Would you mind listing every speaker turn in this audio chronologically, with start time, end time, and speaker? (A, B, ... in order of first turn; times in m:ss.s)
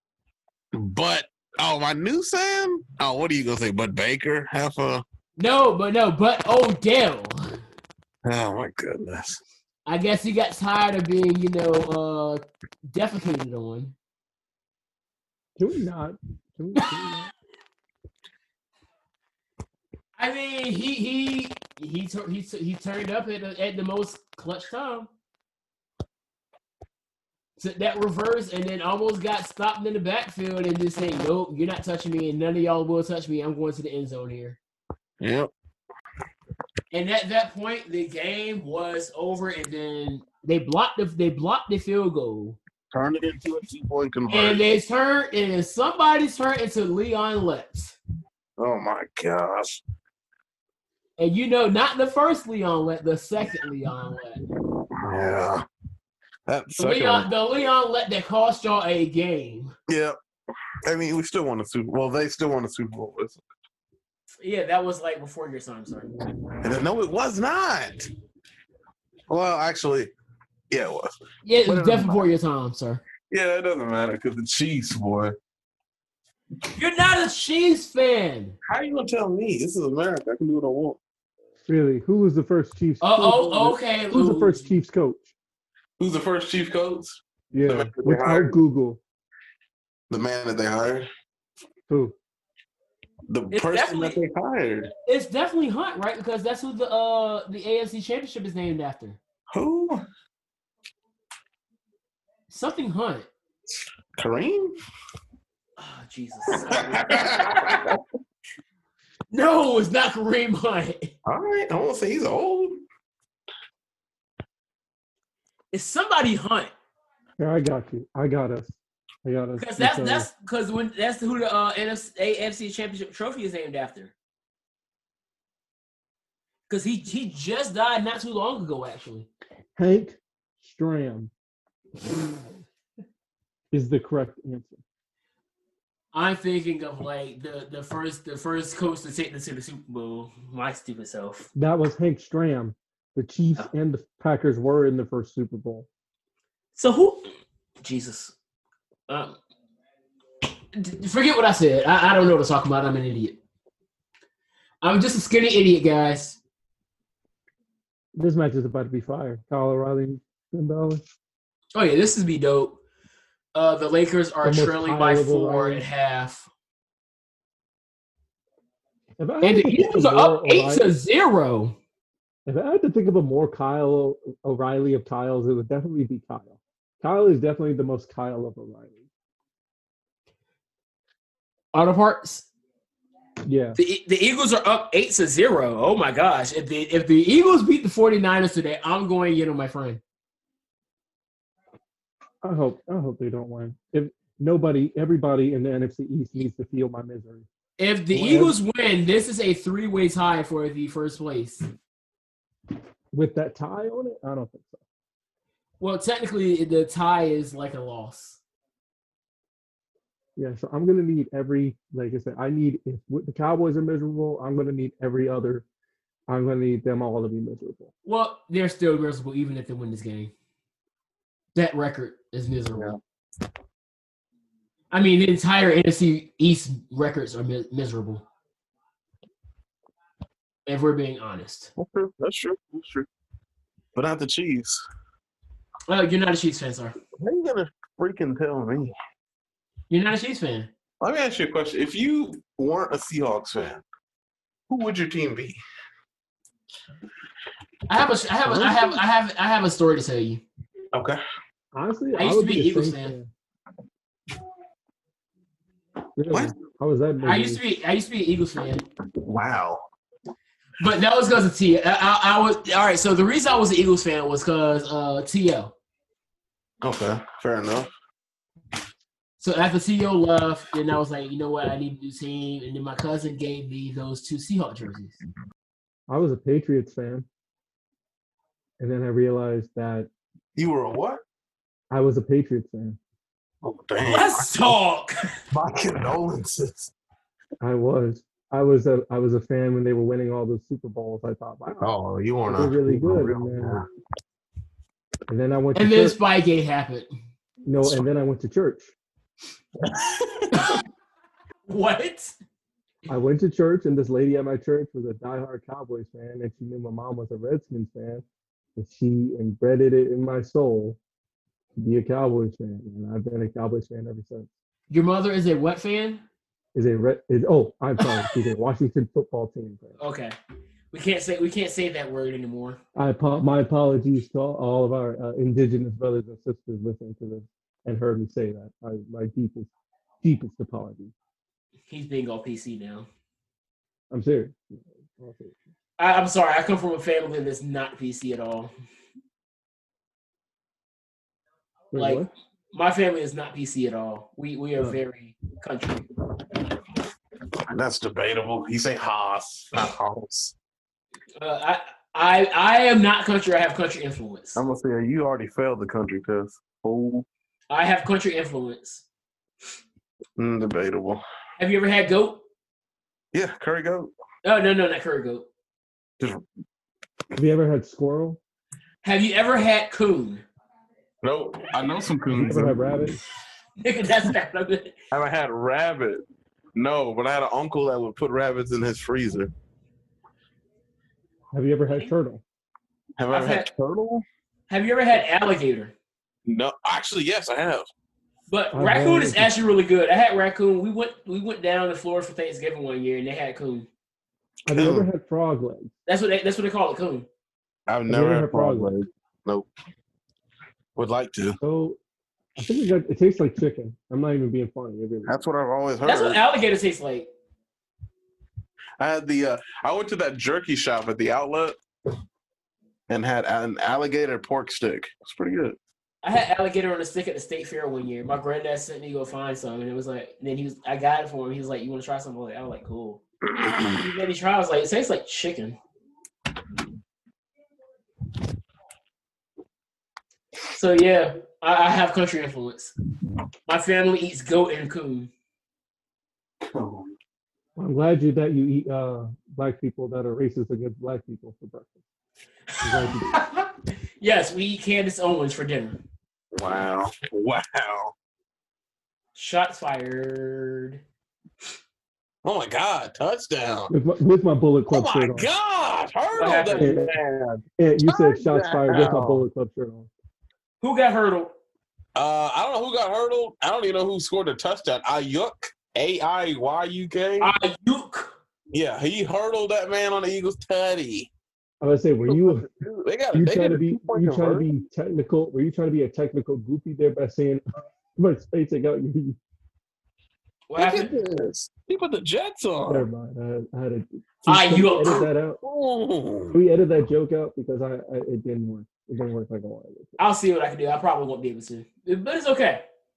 0:00.7-0:05.0 A
0:05.4-0:07.5 B
0:08.2-0:09.4 A
0:09.8-0:13.9 B
0:15.6-0:17.3 C
0:20.2-0:25.1 B
0:27.6-0:34.6 B
0:35.2-0:35.5 A
0:36.9-0:42.6 B
0:42.9-0:44.6 A
0:44.3-0:48.0 B
0:48.6-0:49.8 A
0:51.2-0:54.4 B
0:54.9-0:55.6 A
0:56.5-0:57.3 A
0:56.7-0:59.7 B
0:59.9-1:00.2 A
1:00.8-1:03.4 A
1:04.4-1:06.1 B
1:06.6-1:08.1 A
1:09.3-1:10.1 A
1:10.7-1:12.2 A
1:11.4-1:13.0 B
1:13.3-1:15.4 A
1:16.7-1:18.6 B
1:18.7-1:21.0 A
1:21.6-1:25.3 C
1:23.0-1:24.6 B
1:26.0-1:28.5 A
1:27.5-1:29.0 C
1:30.1-1:31.1 A
1:31.9-1:32.2 C
1:33.3-1:34.9 A
1:33.5-1:34.2 B
1:35.0-1:39.2 B
1:39.5-1:40.0 A
1:42.5-1:43.3 B
1:44.2-1:44.7 A
1:45.8-1:47.8 B
1:46.8-1:48.0 A
1:49.3-1:51.1 B
1:51.2-1:52.8 A
1:55.7-1:56.7 B
1:57.4-2:00.3 C
1:59.6-2:04.1 B
2:06.7-2:09.3 B
2:09.8-2:11.3 C
2:13.7-2:14.8 C
2:16.1-2:21.5 B
2:21.5-2:25.9 C
2:26.8-2:27.3 B
2:27.8-2:28.4 B
2:29.1-2:29.4 B
2:30.7-2:33.4 B
2:34.8-2:36.4 B
2:38.1-2:41.0 C
2:41.7-2:42.8 B
2:43.5-2:46.5 B
2:44.4-2:45.8 C
2:49.2-2:51.0 C
2:49.4-2:51.8 B
2:52.4-2:59.0 C
3:01.7-3:02.5 B
3:03.4-3:03.8 C
3:03.8-3:10.0 B
3:12.4-3:17.5 C
3:17.8-3:21.7 B
3:18.1-3:18.6 C
3:23.1-3:24.8 C
3:25.8-3:28.4 B
3:30.4-3:35.6 C
3:36.3-3:37.9 C
3:38.0-3:40.3 B
3:41.5-3:42.9 B
3:42.7-3:43.0 A
3:44.9-3:48.2 B
3:50.6-3:51.7 B
3:51.8-3:53.1 A
3:53.9-3:54.8 A
3:55.9-3:57.0 B
3:57.2-3:58.9 A
3:59.9-4:00.7 B
4:01.0-4:03.8 A
4:04.7-4:05.6 A
4:07.9-4:10.4 B
4:10.9-4:11.2 A
4:11.7-4:13.3 C
4:12.1-4:13.1 B
4:16.2-4:17.6 C
4:16.3-4:16.6 A
4:17.2-4:18.9 B
4:19.2-4:19.8 A
4:20.8-4:25.7 B
4:26.8-4:27.9 A
4:29.4-4:35.2 B
4:36.1-4:37.2 C
4:38.8-4:40.1 C
4:40.6-4:41.2 A
4:41.9-4:43.0 C
4:43.6-4:44.8 A
4:44.0-4:45.3 B
4:45.5-4:46.9 A
4:47.6-4:51.8 C
4:51.8-4:53.8 A
4:52.5-4:53.8 C
4:55.3-4:56.2 C
4:55.7-4:57.1 B
4:57.6-4:58.9 C
4:59.8-5:00.6 A
5:01.7-5:02.3 B
5:03.1-5:08.2 C
5:08.8-5:11.0 C
5:11.8-5:14.5 C
5:14.9-5:16.2 B
5:16.7-5:20.0 C
5:18.0-5:18.2 B
5:20.0-5:20.3 B
5:20.9-5:22.8 B
5:23.0-5:29.7 C
5:30.2-5:31.1 C
5:31.9-5:33.1 B
5:34.1-5:35.6 C
5:36.0-5:38.7 B
5:41.9-5:42.3 C
5:41.9-5:46.1 B
5:47.7-5:50.5 A
5:51.4-5:54.6 B
5:54.5-5:57.2 A
5:57.7-5:59.0 B
6:00.4-6:01.2 A
6:01.6-6:02.4 B
6:03.3-6:04.1 A
6:04.4-6:05.5 B
6:07.3-6:08.4 C
6:09.0-6:10.4 B
6:11.2-6:13.1 A
6:12.3-6:13.1 C
6:13.8-6:15.0 B
6:15.1-6:16.2 A
6:16.7-6:19.5 A
6:21.5-6:22.4 C
6:23.2-6:24.2 A
6:23.3-6:23.7 B
6:24.7-6:25.9 B
6:26.4-6:27.9 A
6:28.5-6:33.9 B
6:28.7-6:29.5 C
6:34.7-6:35.9 C
6:34.7-6:35.1 A
6:36.1-6:37.3 B
6:37.9-6:39.7 A
6:38.1-6:38.9 C
6:41.0-6:41.6 A
6:41.6-6:42.0 C
6:42.6-6:45.4 C
6:45.2-6:46.4 A
6:46.0-6:47.3 B
6:49.0-6:51.8 A
6:53.1-6:55.8 A
6:56.2-7:03.2 B
7:03.5-7:04.0 A
7:03.9-7:05.8 B
7:10.7-7:12.9 B
7:13.7-7:15.3 B
7:16.7-7:17.1 A
7:17.8-7:22.0 C
7:22.8-7:23.4 C
7:23.3-7:23.7 B
7:24.2-7:26.0 B
7:26.5-7:28.1 A
7:29.3-7:31.0 B
7:32.4-7:33.9 A
7:33.9-7:35.5 C
7:34.9-7:39.4 A
7:36.3-7:36.9 B
7:36.8-7:37.1 C
7:37.8-7:40.1 C
7:40.8-7:41.5 B
7:42.1-7:47.5 A
7:47.4-7:48.3 B
7:48.7-7:51.3 A
7:51.8-7:52.7 C
7:52.2-7:54.6 A
7:53.3-7:57.6 C
7:58.2-7:59.4 C
8:00.7-8:01.1 B
8:00.8-8:03.1 A
8:02.9-8:05.6 C
8:04.4-8:05.3 B
8:05.6-8:06.6 A
8:06.5-8:10.2 C
8:10.2-8:12.8 B